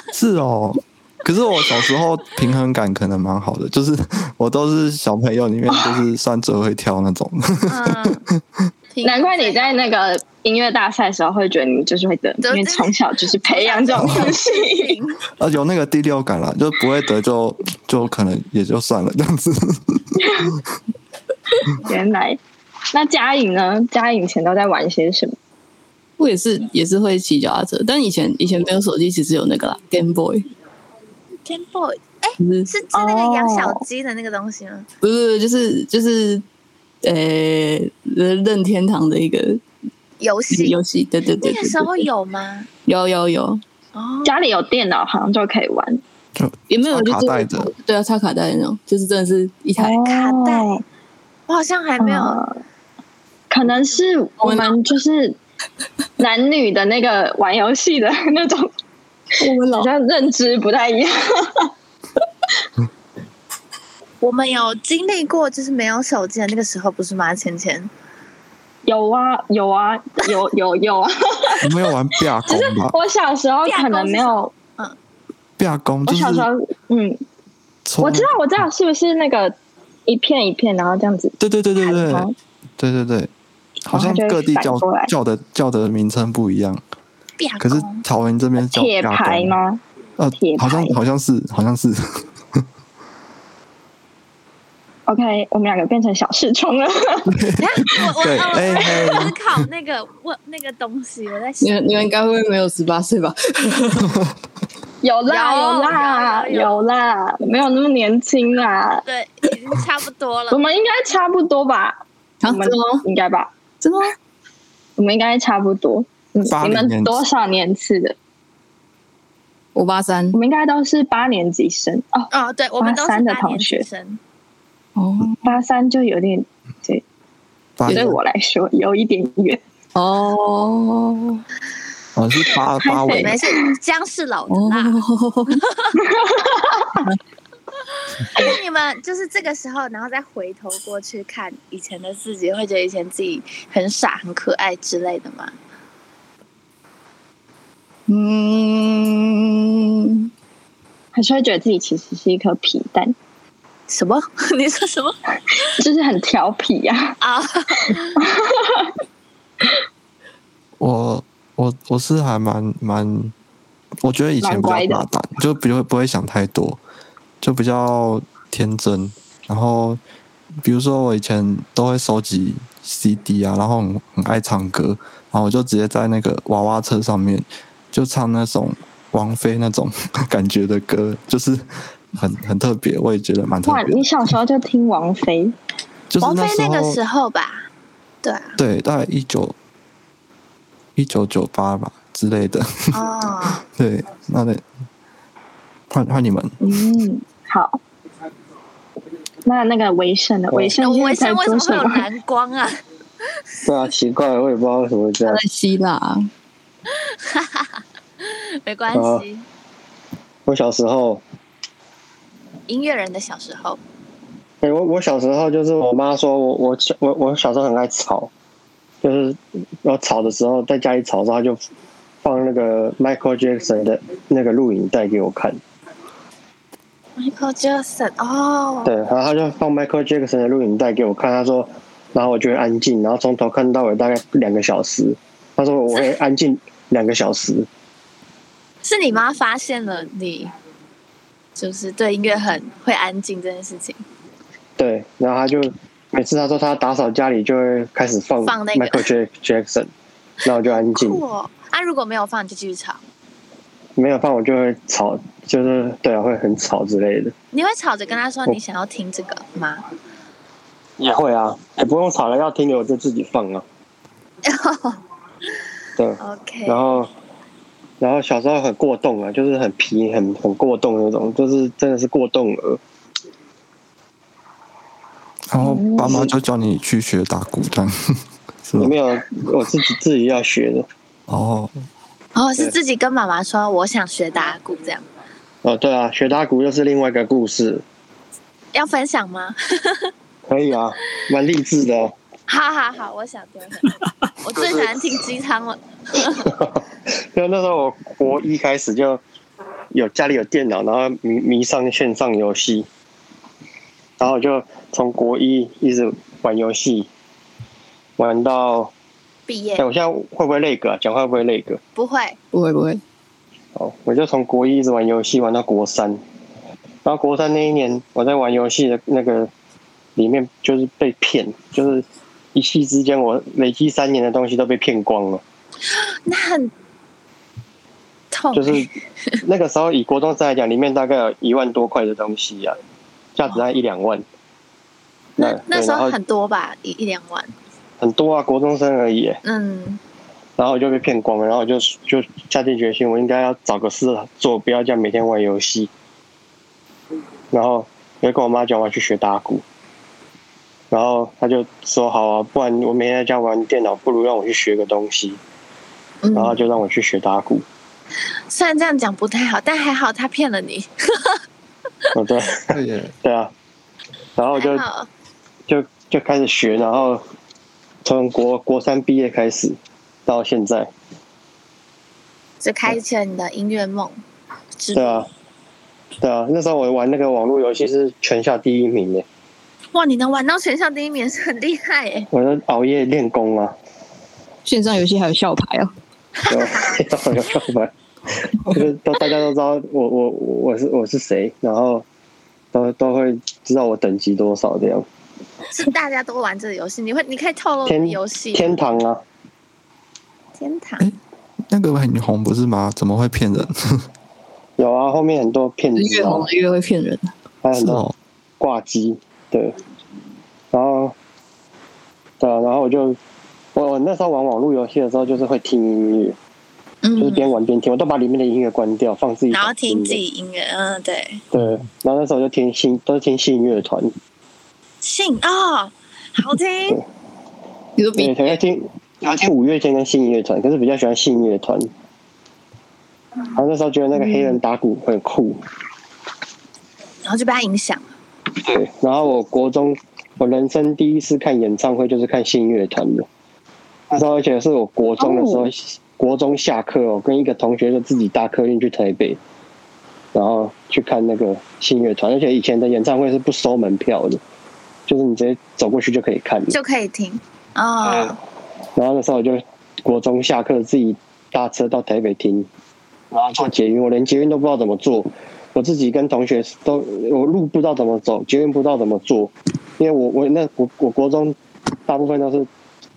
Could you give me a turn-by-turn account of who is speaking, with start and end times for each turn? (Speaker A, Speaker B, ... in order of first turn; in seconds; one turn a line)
Speaker A: 0.1-8.6
Speaker B: 7.7-8.2
Speaker B: 8.9-9.8
Speaker C: 9.0-15.0
Speaker B: 12.4-15.2
Speaker A: 13.9-14.3
Speaker A: 15.4-20.6
Speaker C: 20.2-20.5
Speaker C: 21.8-22.4
Speaker C: 22.9-25.4
Speaker D: 26.2-30.4
Speaker B: 31.4-34.9
Speaker D: 32.4-32.7
Speaker C: 32.9-33.8
Speaker D: 35.0-36.4
Speaker D: 37.0-39.6
Speaker B: 40.2-40.8
Speaker D: 40.5-42.1
Speaker B: 41.4-42.7
Speaker D: 42.9-43.6
Speaker B: 43.9-44.4
Speaker C: 44.2-46.0
Speaker A: 46.3-47.7
Speaker D: 46.7-50.0
Speaker C: 49.8-50.8
Speaker B: 50.0-50.8
Speaker B: 51.5-52.4
Speaker C: 52.0-52.6
Speaker C: 53.5-55.4
Speaker D: 54.4-54.8
Speaker C: 56.2-58.7
Speaker D: 59.4-59.9
Speaker C: 59.7-61.7
Speaker B: 64.2-67.9
Speaker C: 68.8-71.7
Speaker A: 71.6-72.9
Speaker C: 72.4-74.5
Speaker B: 73.6-75.0
Speaker A: 75.6-76.5
Speaker C: 76.1-77.2
Speaker A: 77.8-78.3
Speaker C: 78.0-79.5
Speaker C: 80.1-82.3
Speaker A: 81.4-82.3
Speaker A: 82.8-83.3
Speaker A: 83.8-86.8
Speaker C: 83.9-85.1
Speaker B: 87.4-88.0
Speaker A: 87.6-89.5
Speaker C: 88.6-89.8
Speaker A: 90.2-92.6
Speaker C: 90.3-91.0
Speaker C: 95.1-97.3
Speaker A: 97.3-99.6
Speaker B: 97.6-101.8
Speaker D: 101.6-104.1
Speaker C: 105.0-109.0
Speaker B: 105.3-106.7
Speaker B: 109.0-110.6
Speaker C: 110.5-113.5
Speaker D: 112.4-113.0
Speaker D: 113.8-114.1
Speaker C: 115.0-118.1
Speaker A: 116.4-117.2
Speaker D: 119.8-120.4
Speaker C: 120.3-123.8
Speaker B: 122.3-124.2
Speaker D: 125.0-125.5
Speaker C: 125.4-127.0
Speaker A: 127.8-128.2
Speaker C: 127.8-129.6
Speaker D: 129.9-131.4
Speaker A: 132.2-133.3
Speaker C: 132.8-133.7
Speaker B: 133.2-135.0
Speaker D: 134.5-135.6
Speaker B: 135.5-136.0
Speaker C: 135.9-137.1
Speaker B: 138.2-145.5
Speaker D: 148.1-150.3
Speaker C: 151.1-153.1
Speaker B: 153.9-155.7
Speaker C: 155.8-157.2
Speaker B: 157.2-158.2
Speaker C: 158.2-158.9
Speaker A: 160.8-163.3
Speaker A: 164.0-166.8
Speaker C: 164.4-165.0
Speaker A: 167.4-170.0
Speaker A: 170.6-184.4
Speaker C: 183.7-185.5
Speaker A: 186.1-187.0
Speaker B: 186.2-187.7
Speaker B: 188.2-188.6
Speaker A: 188.6-189.5
Speaker A: 190.9-194.6
Speaker B: 192.9-193.6
Speaker A: 195.9-196.6
Speaker C: 196.6-197.8
Speaker C: 199.4-202.1
Speaker B: 200.8-202.8
Speaker E: 203.6-205.4
Speaker D: 205.3-206.3
Speaker B: 206.9-209.4
Speaker E: 208.9-209.2
Speaker E: 210.4-211.2
Speaker B: 212.7-213.8
Speaker E: 214.6-218.3
Speaker E: 219.0-221.6
Speaker E: 222.2-225.6
Speaker B: 227.2-228.9
Speaker E: 228.8-237.7
Speaker B: 238.8-240.5
Speaker B: 241.6-244.0
Speaker E: 244.8-249.9
Speaker B: 248.4-249.1
Speaker E: 250.4-251.2
Speaker B: 250.6-253.0
Speaker E: 254.0-257.3
Speaker B: 257.5-259.8
Speaker E: 261.0-263.6
Speaker B: 264.4-265.0
Speaker E: 266.0-267.1
Speaker B: 266.2-267.0
Speaker E: 268.0-272.8
Speaker A: 275.5-278.9
Speaker C: 275.6-276.3
Speaker E: 276.0-276.3
Speaker E: 278.8-280.9
Speaker A: 281.3-281.7
Speaker B: 282.3-285.0
Speaker E: 285.6-287.8
Speaker B: 288.7-290.1
Speaker E: 290.5-292.1
Speaker B: 292.5-296.5
Speaker E: 294.5-295.2
Speaker E: 296.4-296.8
Speaker E: 297.3-299.2
Speaker E: 299.9-302.9
Speaker E: 304.2-307.1
Speaker E: 308.2-308.9
Speaker B: 309.5-309.9
Speaker E: 309.8-311.8
Speaker B: 311.9-312.4
Speaker D: 312.5-313.0
Speaker E: 313.8-316.2
Speaker E: 317.0-319.5
Speaker E: 320.1-325.4
Speaker B: 325.9-326.7
Speaker B: 328.3-329.4
Speaker E: 328.5-328.9
Speaker E: 329.4-332.8
Speaker E: 333.4-334.2
Speaker E: 335.4-336.1
Speaker B: 335.4-337.5
Speaker E: 338.0-339.4
Speaker B: 339.4-340.0
Speaker E: 340.6-345.9
Speaker E: 347.5-349.6
Speaker E: 350.9-355.4
Speaker B: 356.2-356.6
Speaker E: 356.3-357.6
Speaker B: 358.5-361.4
Speaker E: 362.1-363.5
Speaker A: 362.7-363.1
Speaker E: 364.4-364.8
Speaker B: 364.5-365.1
Speaker E: 365.7-367.2
Speaker E: 368.0-370.9
Speaker B: 372.6-374.2
Speaker B: 374.8-375.2
Speaker E: 374.9-375.3
Speaker E: 376.2-379.2
Speaker B: 379.9-382.3
Speaker E: 382.3-383.7
Speaker D: 384.6-385.9
Speaker B: 386.4-387.0
Speaker E: 386.5-387.9
Speaker E: 388.6-392.0
Speaker E: 392.7-395.1
Speaker B: 395.7-398.8
Speaker E: 397.9-399.2
Speaker B: 400.6-401.1
Speaker A: 401.7-404.1
Speaker E: 404.8-406.5
Speaker D: 405.9-407.3
Speaker E: 407.6-408.0
Speaker A: 407.8-408.1
Speaker E: 408.6-409.7
Speaker E: 410.7-411.1
Speaker E: 412.4-413.2
Speaker E: 413.7-416.4
Speaker B: 417.0-417.5
Speaker E: 417.2-420.2
Speaker B: 419.5-421.4
Speaker E: 421.5-424.1
Speaker B: 425.0-427.0
Speaker D: 428.0-428.6
Speaker E: 428.2-431.9
Speaker E: 433.5-435.6
Speaker B: 437.2-438.0
Speaker E: 438.6-443.3
Speaker E: 444.1-449.4
Speaker C: 445.2-445.7
Speaker E: 450.3-454.4
Speaker E: 455.1-456.7
Speaker B: 456.7-458.4
Speaker E: 458.0-458.3
Speaker E: 458.9-462.7
Speaker E: 463.3-471.6
Speaker E: 472.1-472.7